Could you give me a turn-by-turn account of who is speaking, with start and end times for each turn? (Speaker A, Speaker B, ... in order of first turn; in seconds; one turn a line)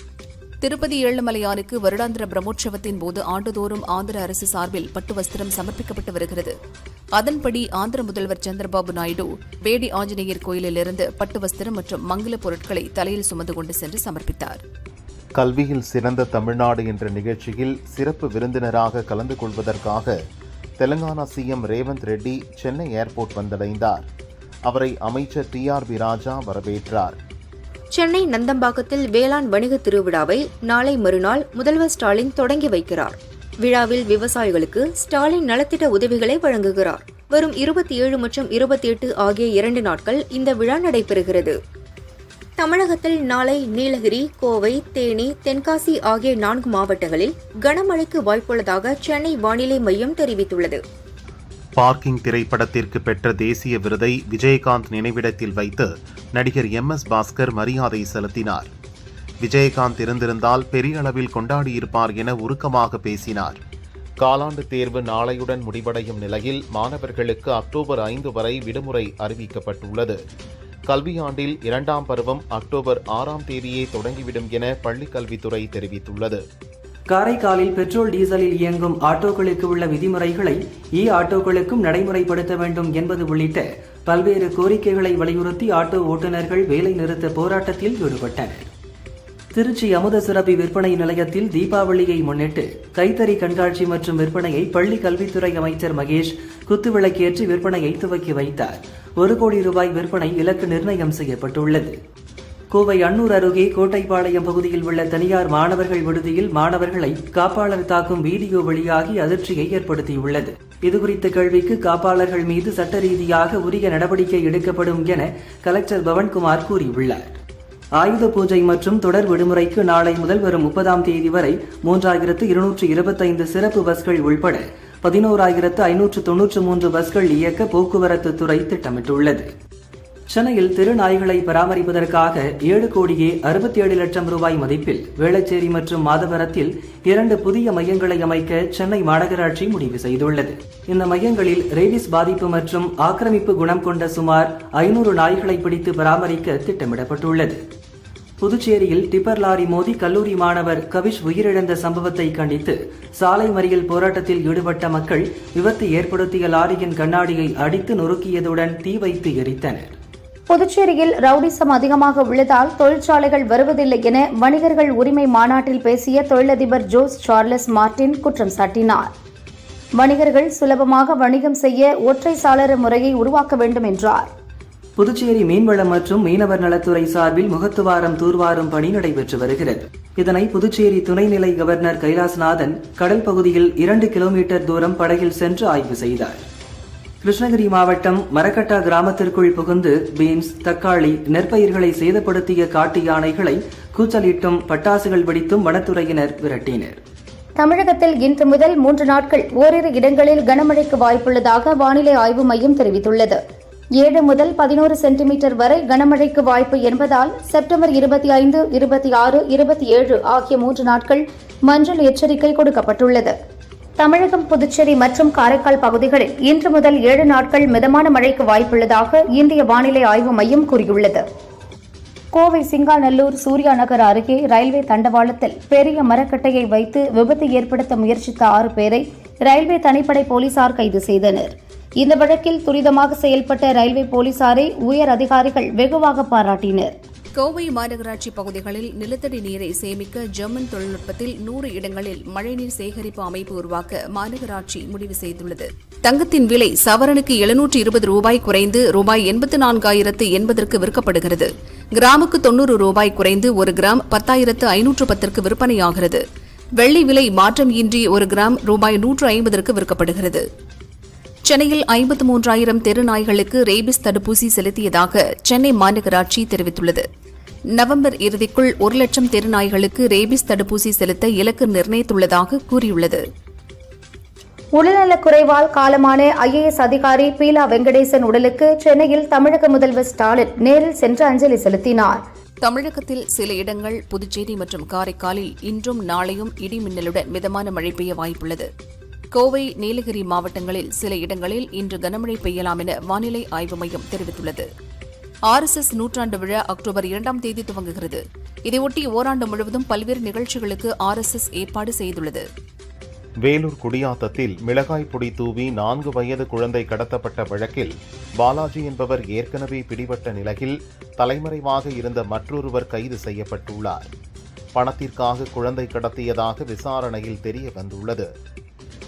Speaker A: 0.6-6.5
Speaker A: 7.2-14.6
Speaker B: 15.4-20.1
Speaker B: 20.8-24.1
Speaker B: 24.7-27.2
Speaker C: 27.9-41.6
Speaker C: 42.6-50.8
Speaker B: 51.8-58.7
Speaker B: 59.4-63.6
Speaker B: 64.2-70.2
Speaker B: 70.9-76.4
Speaker D: 77.1-88.7
Speaker D: 89.5-102.0
Speaker D: 102.7-117.4
Speaker D: 118.0-129.5
Speaker D: 130.3-147.6
Speaker D: 148.4-160.0
Speaker E: 160.5-169.1
Speaker E: 170.0-174.3
Speaker D: 175.0-186.5
Speaker D: 187.2-197.0
Speaker E: 197.6-203.4
Speaker E: 204.0-213.3
Speaker E: 214.0-221.2
Speaker E: 222.3-236.9
Speaker A: 237.4-256.2
Speaker A: 256.8-260.4
Speaker A: 261.5-267.1
Speaker A: 267.8-273.2
Speaker E: 274.8-282.2
Speaker A: 282.6-288.7
Speaker A: 289.3-294.7
Speaker A: 295.5-302.4
Speaker B: 303.4-314.1
Speaker B: 314.8-318.3